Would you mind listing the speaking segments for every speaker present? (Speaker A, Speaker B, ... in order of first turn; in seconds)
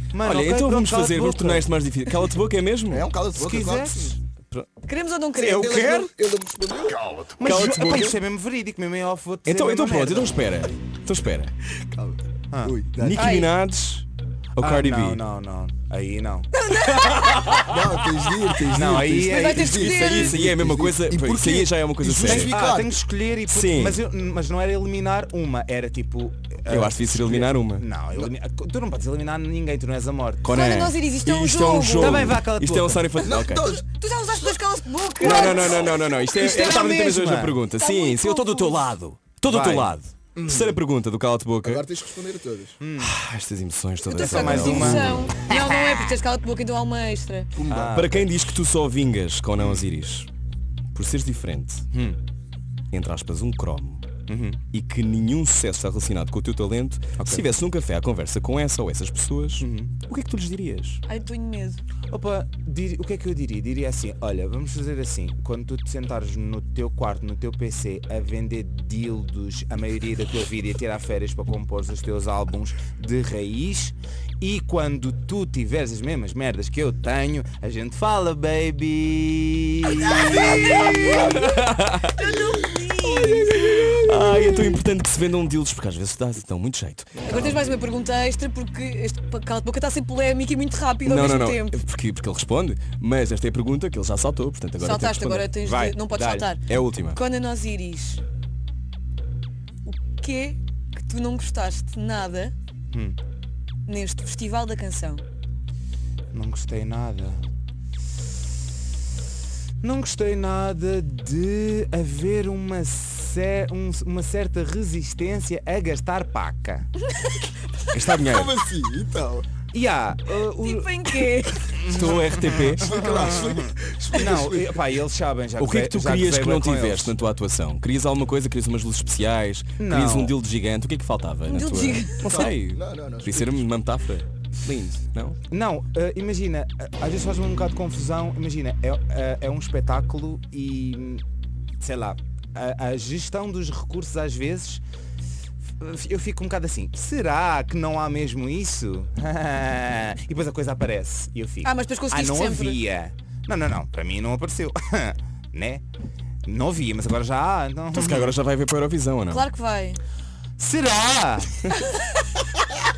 Speaker A: 0.1-1.7, 3.3-4.2, 7.4-10.4, 14.6-16.5, 18.7-20.1, 22.2-30.6, 32.0-33.3, 35.3-37.6, 39.5-39.9, 42.8-43.1, 44.1-46.1, 47.7-48.3, 49.6-49.8, 51.9-52.2, 54.3-54.6, 57.2-57.5, 59.6-59.9, 62.1-81.4, 95.6-96.5, 102.9-103.2, 106.3-107.4, 109.8-116.9, 119.7-127.2, 129.8-130.3, 135.5-141.2, 141.8-144.8, 145.8-155.8, 156.4-158.4, 160.6-161.7
Speaker B: 0.2-3.0, 7.4-8.2, 9.4-11.5, 13.0-15.2, 17.3-17.7, 19.6-22.5, 23.5-24.0, 26.7-27.9, 30.4-33.8, 35.2-41.9, 43.0-45.3, 47.9-50.3, 50.9-51.9, 52.9-54.0, 54.7-61.0, 80.9-82.1, 83.4-87.3, 91.0-95.5, 96.7-97.2, 117.9-118.5, 121.8-122.9, 125.6-135.4, 157.9-159.5
Speaker C: 2.9-4.2, 5.4-7.3, 11.8-13.3, 17.6-23.0, 33.2-33.8, 40.4-40.8, 41.6-42.8, 47.5-48.1, 87.2-87.7, 118.2-119.5, 122.7-124.8, 132.2-133.7
Speaker D: 4.8-6.1, 13.2-13.5, 16.6-17.6, 19.3-20.3, 30.5-32.3, 33.7-38.9, 44.0-47.5, 61.0-61.8, 80.0-84.4, 87.2-91.8, 94.8-98.2, 99.8-102.5, 103.8-105.2, 120.6-121.8, 131.4-132.5, 151.6-152.8, 159.3-160.0, 161.7-162.2